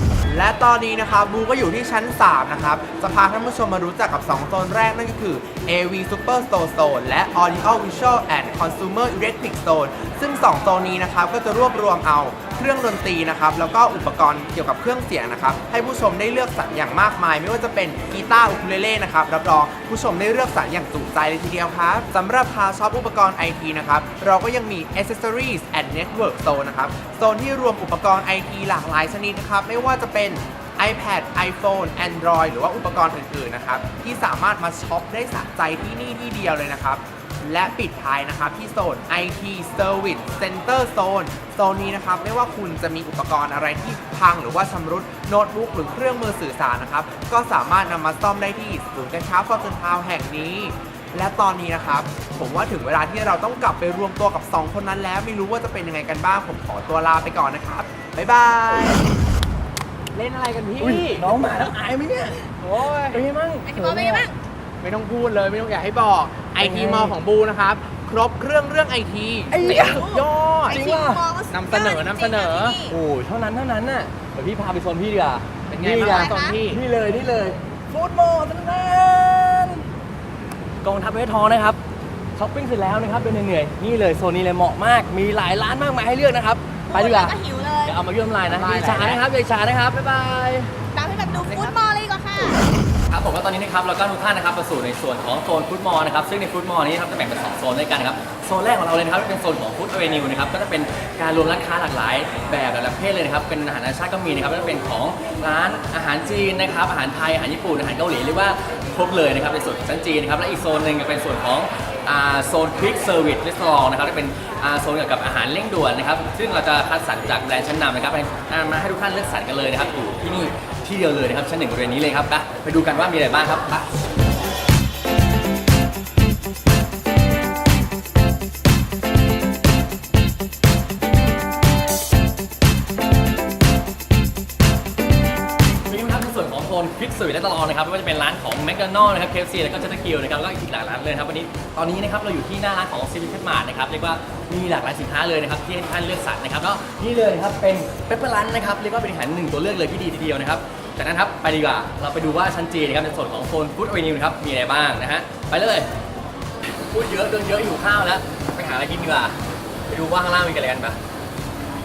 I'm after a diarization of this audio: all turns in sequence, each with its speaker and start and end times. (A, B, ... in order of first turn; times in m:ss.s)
0:00.3-0:59.0 A
1:00.1-1:01.3 A
1:00.8-1:04.3 B
1:02.6-1:03.2 A
1:03.7-1:04.4 C
1:04.8-1:10.8 A
1:06.6-1:07.1 B
1:09.5-1:10.1 B
1:09.6-1:12.9 C
1:10.7-1:11.2 B
1:11.5-1:12.8 A
1:12.8-1:19.8 B
1:15.7-1:16.8 A
1:16.0-1:16.6 C
1:20.8-1:21.8 B
1:22.4-1:30.7 B
1:26.9-1:28.0 C
1:28.5-1:29.2 A
1:30.9-1:32.6 C
1:31.4-1:31.8 A
1:33.1-2:03.9 B
2:15.9-2:35.9 B
2:36.8-2:39.4 B
2:39.9-2:41.0 B